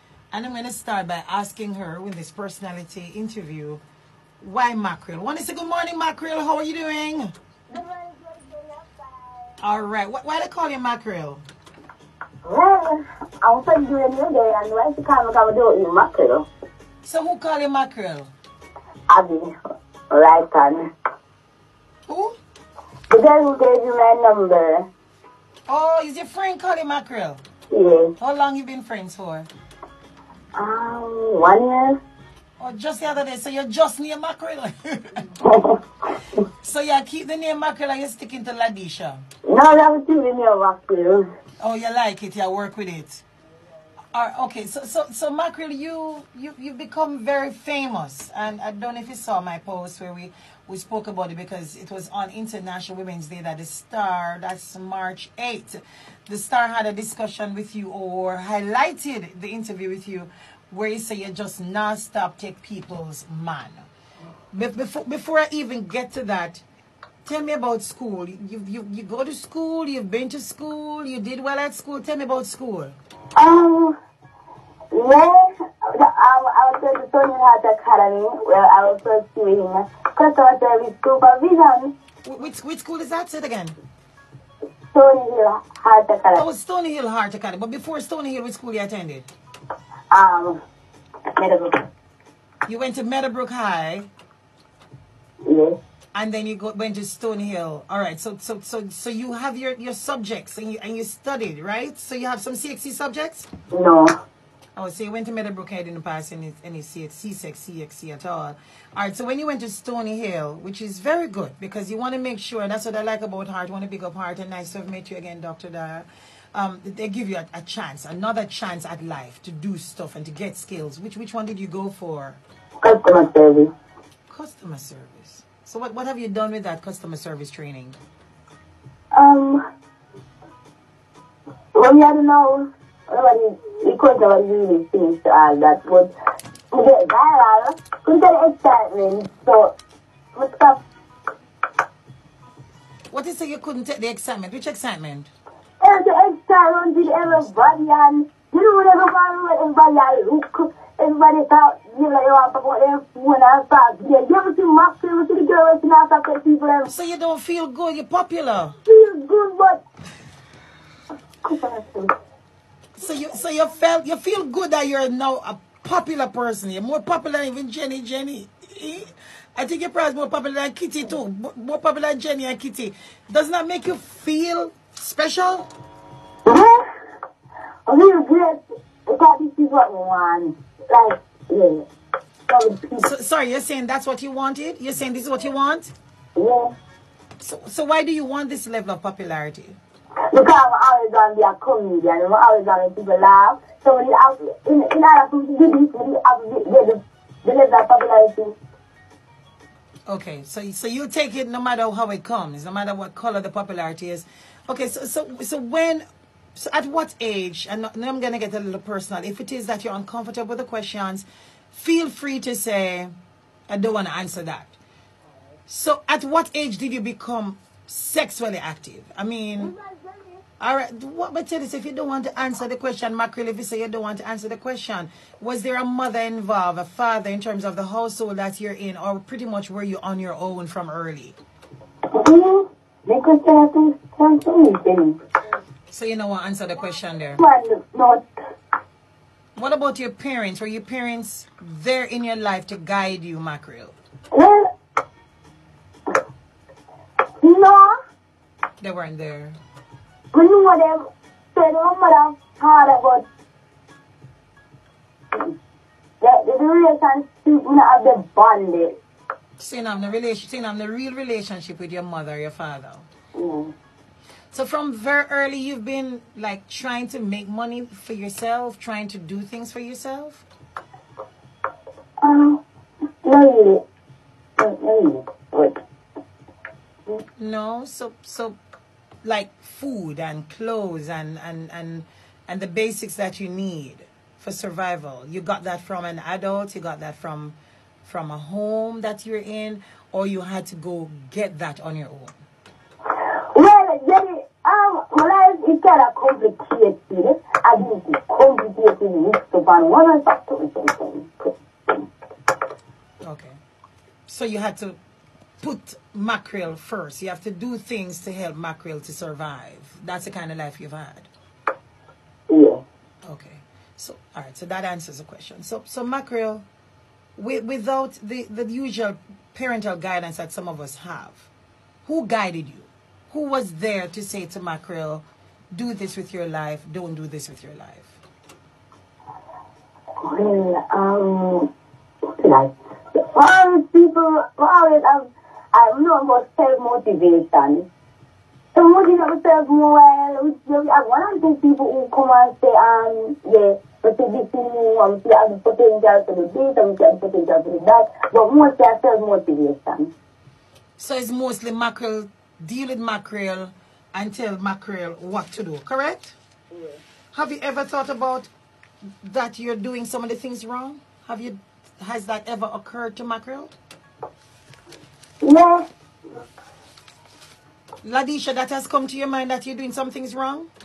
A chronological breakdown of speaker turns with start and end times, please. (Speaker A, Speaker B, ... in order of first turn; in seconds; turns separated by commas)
Speaker A: 0.3-3.8, Speaker A: 4.4-7.3, Speaker B: 7.7-9.5, Speaker A: 9.6-11.4, Speaker B: 12.4-16.5, Speaker A: 17.0-18.3, Speaker B: 19.1-19.5, Speaker B: 20.1-20.9, Speaker A: 22.1-22.4, Speaker B: 23.1-24.9, Speaker A: 25.7-27.4, Speaker B: 27.7-28.1, Speaker A: 28.2-29.5, Speaker B: 30.6-32.0, Speaker A: 32.6-35.4, Speaker B: 35.4-35.8, Speaker A: 36.5-39.2, Speaker B: 39.5-41.3, Speaker A: 41.6-43.2, Speaker A: 44.1-63.9, Speaker A: 64.5-66.6, Speaker A: 67.2-73.0, Speaker B: 73.4-74.0, Speaker B: 74.9-81.9, Speaker A: 82.2-83.8, Speaker B: 84.9-86.4, Speaker A: 86.3-89.3, Speaker B: 90.1-90.6, Speaker B: 91.4-91.8, Speaker A: 92.7-94.1, Speaker B: 95.5-95.8, Speaker A: 96.1-103.5, Speaker B: 103.7-104.1, Speaker A: 104.8-122.4, Speaker B: 122.8-123.7, Speaker A: 124.3-128.0, Speaker B: 129.2-129.6, Speaker B: 131.8-136.1, Speaker B: 136.7-139.7, Speaker B: 140.3-140.8, Speaker A: 143.1-145.3, Speaker B: 145.8-156.9, Speaker A: 156.9-158.8, Speaker B: 158.9-159.8, Speaker B: 161.4-162.1, Speaker A: 162.9-175.7, Speaker B: 176.4-176.8, Speaker B: 177.9-181.9, Speaker B: 182.5-183.1, Speaker A: 183.0-185.9, Speaker B: 186.4-186.7, Speaker A: 187.4-189.8, Speaker B: 190.3-198.6, Speaker A: 200.1-206.0, Speaker A: 206.6-213.1, Speaker A: 213.7-214.8, Speaker A: 215.7-219.7, Speaker B: 219.6-220.4, Speaker A: 220.6-231.4, Speaker B: 232.1-235.2, Speaker A: 235.9-237.4, Speaker B: 237.4-238.2, Speaker A: 239.6-244.0, Speaker B: 244.3-244.7, Speaker B: 247.4-247.9, Speaker A: 248.8-249.6, Speaker B: 250.3-253.2, Speaker B: 256.2-259.0, Speaker A: 259.6-263.1, Speaker B: 263.4-263.7, Speaker A: 264.5-270.5, Speaker B: 272.2-272.6, Speaker B: 273.2-273.8, Speaker B: 274.6-275.8, Speaker A: 277.4-278.6, Speaker A: 279.2-292.4, Speaker B: 293.1-302.1, Speaker A: 303.2-303.6, Speaker A: 304.3-305.0, Speaker A: 305.6-311.3, Speaker B: 312.5-312.8, Speaker A: 313.3-316.7, Speaker A: 317.4-321.5, Speaker A: 322.1-328.2, Speaker B: 330.2-331.7, Speaker B: 332.3-337.9, Speaker B: 338.8-350.1, Speaker A: 351.0-356.4, Speaker B: 356.7-357.0, Speaker A: 357.3-358.5, Speaker A: 359.2-363.7, Speaker B: 365.4-365.9, Speaker A: 368.0-370.7